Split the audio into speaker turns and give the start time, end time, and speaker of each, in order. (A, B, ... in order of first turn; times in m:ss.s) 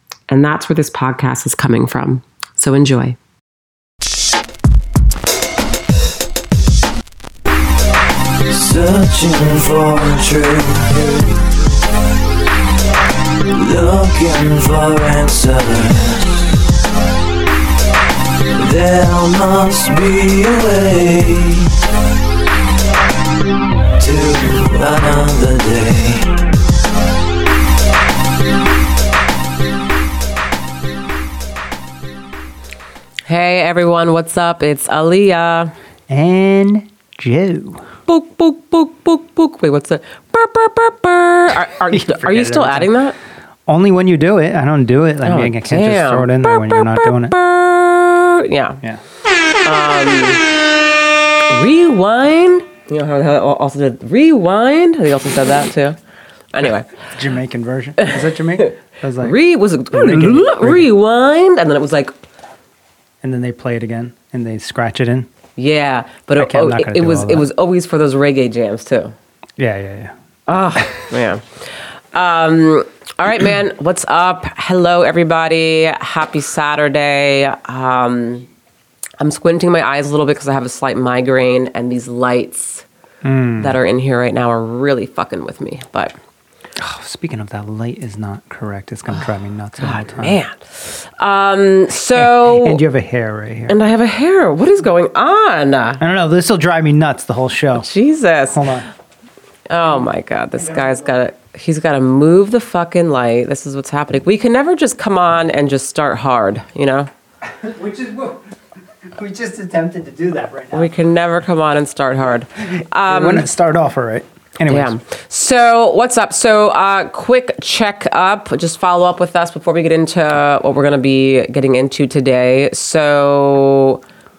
0:00.3-0:03.2 A
0:08.4-0:11.4 B
0:13.5-0:16.3 B
0:18.6-0:21.8 B
0:24.0-0:26.3 B
0:33.3-0:35.7 A
0:36.1-0:37.9 C
0:38.1-0:43.2 A
0:41.9-0:42.9 C
0:43.7-0:47.4 C
0:45.2-0:48.8 A
0:49.6-0:50.5 A
0:51.5-0:56.0 A
0:56.5-0:56.9 A
0:57.1-0:59.4 C
0:58.0-1:02.1 A
0:59.9-1:00.9 C
1:03.2-1:05.3 C
1:05.6-1:09.1 A
1:06.4-1:07.5 C
1:09.6-1:10.1 C
1:10.5-1:18.5 A
1:19.2-1:22.9 A
1:23.2-1:23.7 C
1:23.6-1:26.1 A
1:26.8-1:30.4 C
1:29.8-1:32.8 A
1:32.2-1:33.8 C
1:33.7-1:36.0 A
1:36.0-1:37.9 C
1:37.8-1:38.7 A
1:38.5-1:38.9 C
1:39.7-1:47.1 A
1:47.5-1:48.4 C
1:49.0-1:50.9 C
1:50.7-1:53.5 A
1:53.1-1:55.0 C
1:54.7-2:04.0 A